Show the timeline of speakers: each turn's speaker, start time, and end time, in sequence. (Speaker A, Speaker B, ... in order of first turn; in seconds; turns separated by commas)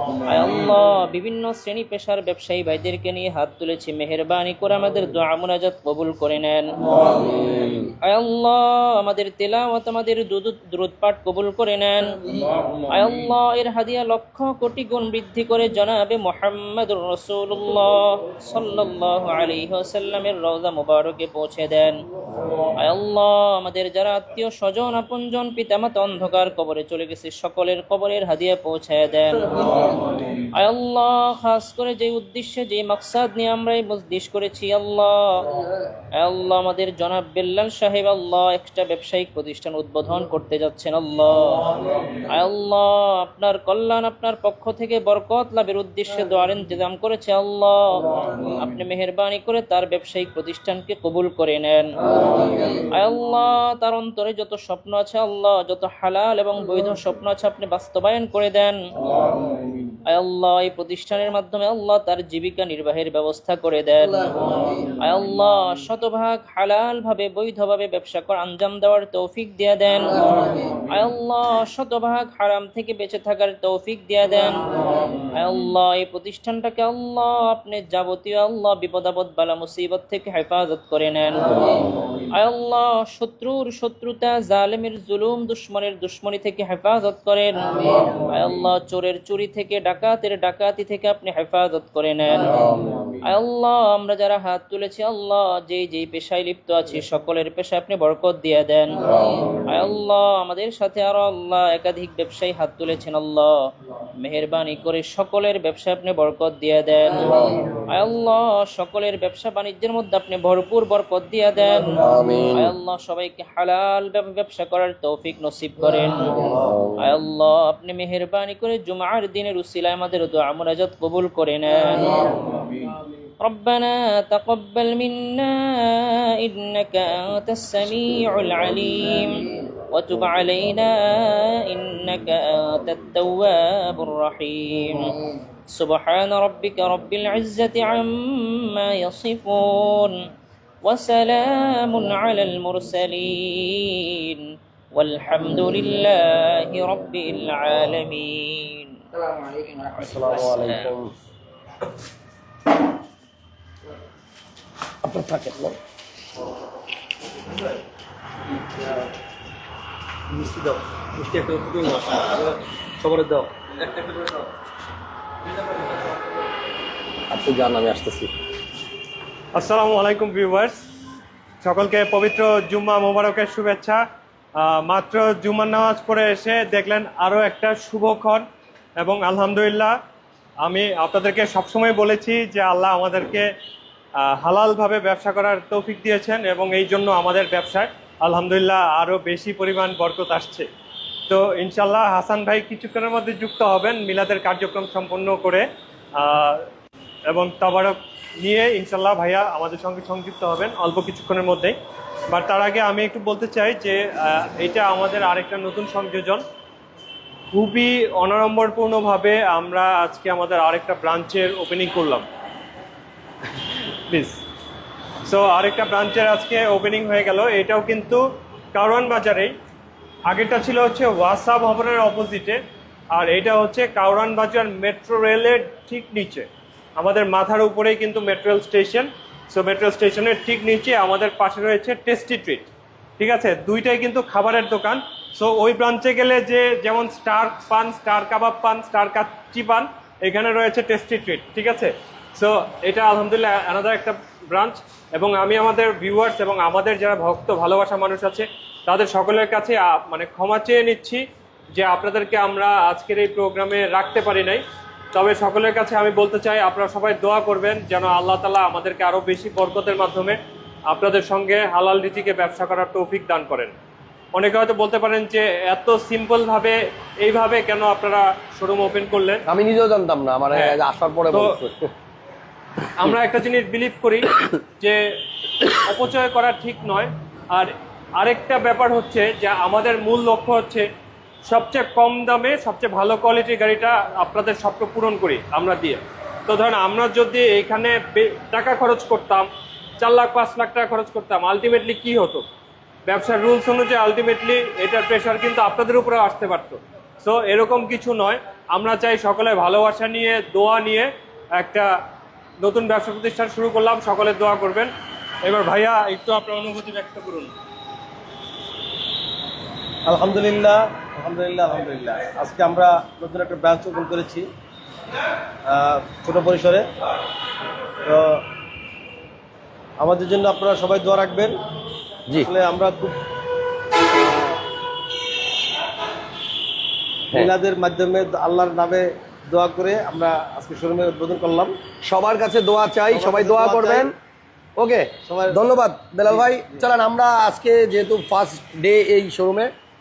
Speaker A: 0.3-6.8, Speaker B: 7.5-7.8, Speaker A: 8.0-12.2, Speaker A: 12.8-22.0, Speaker A: 22.8-29.6, Speaker A: 30.5-35.5, Speaker A: 36.2-41.6, Speaker A: 42.3-58.8, Speaker A: 60.0-74.7, Speaker A: 75.2-103.6, Speaker A: 104.2-122.3, Speaker B: 112.0-112.7, Speaker B: 116.5-117.0, Speaker A: 123.4-135.2, Speaker A: 135.7-140.2, Speaker A: 140.8-150.9, Speaker B: 150.0-151.1, Speaker B: 155.0-155.8, Speaker B: 160.3-164.3, Speaker B: 167.3-168.3, Speaker C: 169.5-170.8, Speaker C: 171.6-174.0, Speaker C: 174.6-178.4, Speaker C: 179.0-180.0, Speaker C: 180.6-183.5, Speaker C: 184.2-190.7, Speaker C: 191.3-196.7, Speaker C: 197.3-201.8, Speaker C: 202.3-206.4, Speaker C: 207.5-212.3, Speaker C: 214.1-214.4, Speaker C: 215.2-219.5, Speaker C: 220.3-222.6, Speaker C: 223.1-263.7, Speaker C: 264.3-269.4, Speaker B: 269.5-271.9, Speaker C: 270.5-270.8, Speaker C: 271.3-271.6, Speaker C: 272.9-275.0, Speaker C: 275.6-280.9, Speaker C: 281.4-292.4, Speaker C: 293.1-301.9, Speaker C: 302.6-307.5, Speaker D: 310.0-314.5, Speaker D: 315.6-316.9, Speaker D: 318.0-318.4, Speaker D: 320.0-321.6, Speaker D: 322.4-323.2, Speaker D: 324.1-324.6, Speaker D: 327.3-331.8, Speaker B: 332.0-334.1, Speaker D: 333.1-334.1, Speaker B: 334.8-339.7, Speaker D: 335.2-335.6, Speaker D: 336.3-336.8